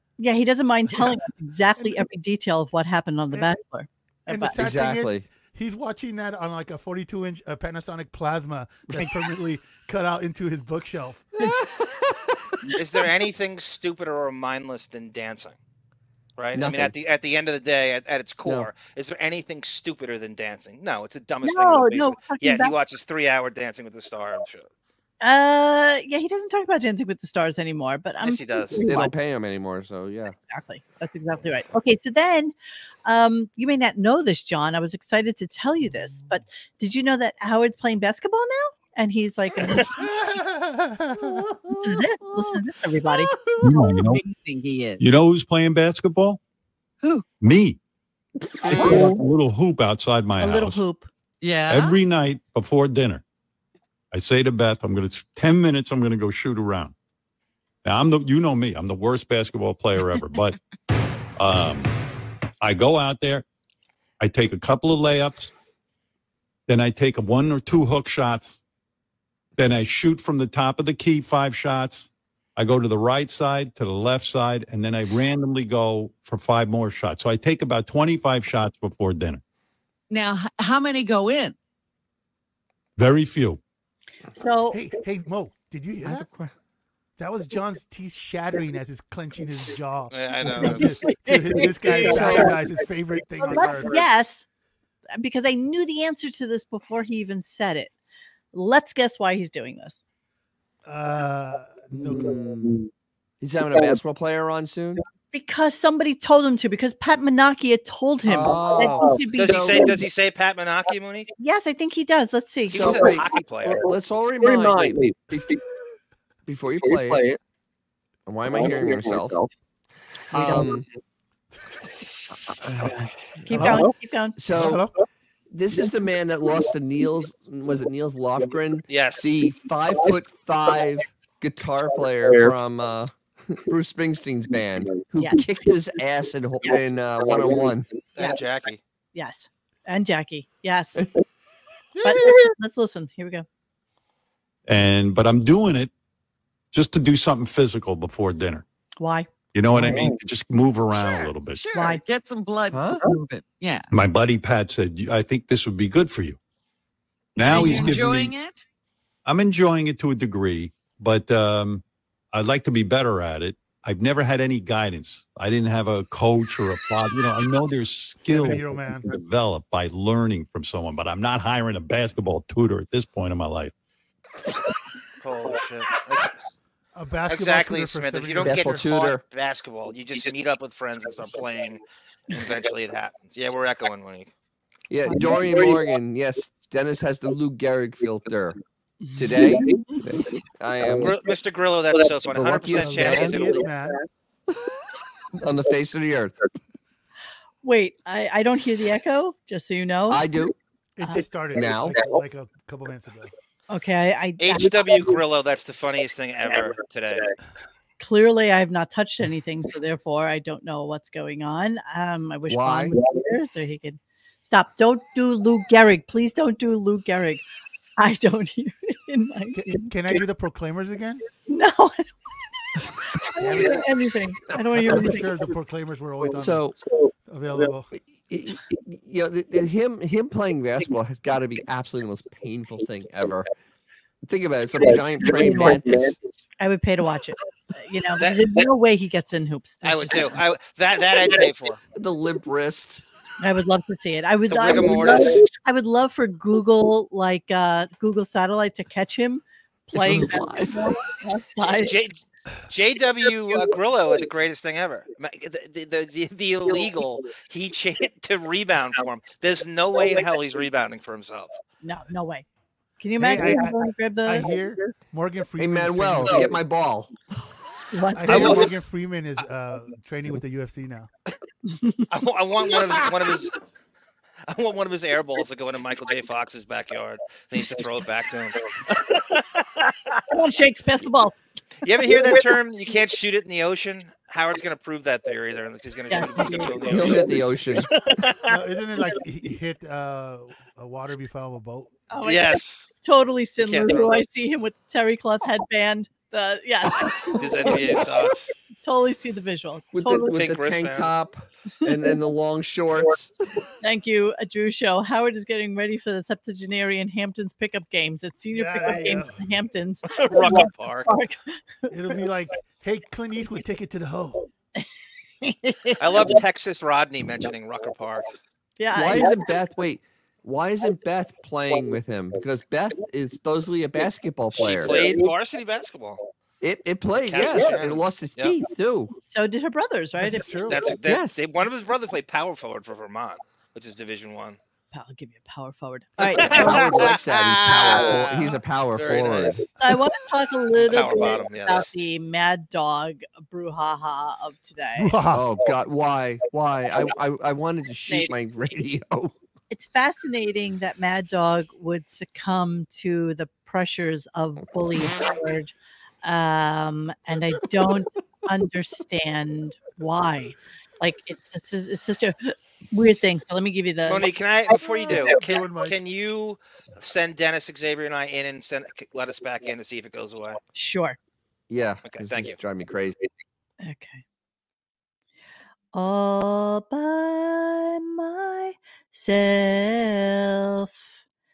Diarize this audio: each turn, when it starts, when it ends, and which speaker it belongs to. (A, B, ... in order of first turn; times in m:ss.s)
0:00.2-0:04.6 A
0:01.8-0:02.1 B
0:04.3-0:11.6 B
0:04.6-0:05.3 C
0:08.9-0:09.3 C
0:11.4-0:12.2 C
0:12.8-0:15.6 D
0:16.4-0:24.7 D
0:16.5-0:16.9 C
0:21.4-0:22.8 A
0:25.2-0:29.1 A
0:28.2-0:28.9 D
0:28.8-0:30.4 C
0:30.5-0:32.5 A
0:33.0-0:40.0 A
0:39.8-0:41.5 B
0:41.7-0:43.3 A
0:43.6-0:44.2 E
0:43.6-0:45.0 F
0:45.0-0:46.4 E
0:47.0-0:47.3 F
0:47.4-0:47.8 E
0:48.7-0:50.8 E
0:48.9-0:49.2 F
0:50.4-0:51.1 A
0:51.4-0:52.0 F
0:51.7-0:53.2 E
0:54.1-0:56.9 E
0:57.8-1:00.6 E
1:01.4-1:01.9 E
1:02.6-1:03.4 E
1:04.2-1:05.5 E
1:06.7-1:08.6 E
1:09.6-1:19.4 E
1:20.1-1:21.6 F
1:23.0-1:23.6 E
1:24.4-1:24.8 A
1:24.7-1:26.3 B
1:26.0-1:26.5 C
1:27.2-1:34.0 B
1:30.1-1:31.0 D
1:30.5-1:32.5 A
1:32.0-1:32.6 C
1:33.4-1:34.4 A
1:35.1-1:37.9 A
1:38.5-1:40.0 A
1:40.9-1:42.4 B
1:41.9-1:42.9 C
1:43.4-1:45.0 C
1:45.3-1:50.0 A
1:48.3-1:49.8 C
1:49.4-1:51.3 D
1:51.4-1:53.0 A
1:52.7-1:53.9 D
1:52.7-1:55.6 C
1:56.5-1:57.3 C
1:58.3-1:59.4 C
2:00.3-2:00.8 C
2:02.6-2:03.8 C
2:03.5-2:04.4 A
2:03.5-2:03.8 B
2:04.4-2:04.8 C
2:04.5-2:04.9 B
2:05.5-2:17.9 C
2:08.9-2:09.3 D
2:18.2-2:18.8 D
2:19.2-2:21.0 A
2:22.0-2:22.4 B
2:22.0-2:23.4 A
2:24.7-2:25.9 E
2:26.7-2:28.6 E
2:29.0-2:29.3 A
2:29.5-2:31.7 E
2:30.9-2:33.9 F
2:31.7-2:32.0 A
2:32.7-2:33.0 C
2:33.9-2:36.4 E
2:37.4-2:38.3 E
2:37.4-2:38.6 F
2:39.2-2:53.7 E
2:48.2-2:49.1 B
2:55.2-2:56.4 D
2:57.0-2:58.8 B
2:57.3-3:04.3 D
2:58.4-2:59.2 C
3:04.9-3:08.6 C
3:09.2-3:11.2 C
3:11.0-3:13.7 D
3:12.3-3:13.5 C
3:12.8-3:14.0 B
3:15.4-3:16.4 C
3:17.6-3:20.2 A
3:20.1-3:20.6 C
3:21.0-3:23.3 B
3:21.6-3:22.0 C
3:23.7-3:25.1 A
3:24.4-3:27.3 D
3:28.0-3:37.4 A
3:32.5-3:33.0 C
3:38.0-3:39.9 A
3:39.6-3:41.2 B
3:41.5-3:42.1 A
3:43.2-3:45.3 A
3:43.4-3:43.8 B
3:44.7-3:46.7 B
3:46.4-3:46.8 C
3:47.3-3:47.9 B
3:48.3-3:53.5 C
3:54.2-3:56.2 C
3:55.5-3:55.8 A
3:56.6-4:00.3 A
3:59.8-4:01.8 D
4:02.0-4:03.0 C
4:03.4-4:12.0 A
4:04.5-4:05.4 D
4:09.9-4:10.8 C
4:11.7-4:21.6 D
4:21.8-4:22.4 A
4:23.0-4:24.5 A
4:23.2-4:26.5 B
4:25.6-4:27.2 C
4:27.9-4:28.7 A
4:28.2-4:31.1 B
4:28.3-4:28.7 D
4:31.7-4:32.1 A
4:32.1-4:33.6 D
4:34.5-4:40.0 D
4:40.3-4:41.4 A
4:41.8-4:48.6 D
4:46.1-4:47.2 A
4:46.9-4:47.9 C
4:48.5-4:51.9 B
4:52.1-4:57.8 A
4:52.2-4:52.9 D
4:53.6-4:54.2 D
4:57.3-4:58.5 D
4:58.8-5:00.4 A
4:59.9-5:03.4 C
5:00.3-5:01.1 D
5:03.8-5:11.9 A
5:08.5-5:09.4 B
5:10.1-5:11.1 D
5:11.9-5:14.5 B
5:15.4-5:15.7 A
5:16.0-5:18.3 D
5:18.8-5:19.3 A
5:18.9-5:25.1 C
5:24.6-5:26.2 D
5:26.6-5:29.1 C
5:27.2-5:28.6 D
5:29.3-5:30.7 A
5:30.2-5:30.8 B
5:30.6-5:34.6 D
5:31.1-5:31.4 C
5:34.9-5:37.1 A
5:36.2-5:39.6 D
5:36.4-5:39.7 C
5:39.8-5:45.2 A
5:40.8-5:41.9 D
5:45.0-5:45.4 B
5:45.3-5:49.3 C
5:48.1-5:48.4 A
5:49.7-5:55.7 A
5:56.2-6:04.3 A
6:04.1-6:10.6 D
6:04.8-6:06.0 B
6:10.7-6:11.2 A
6:11.7-6:13.3 C
6:12.0-6:12.6 D
6:13.8-6:14.2 A
6:15.9-6:21.1 A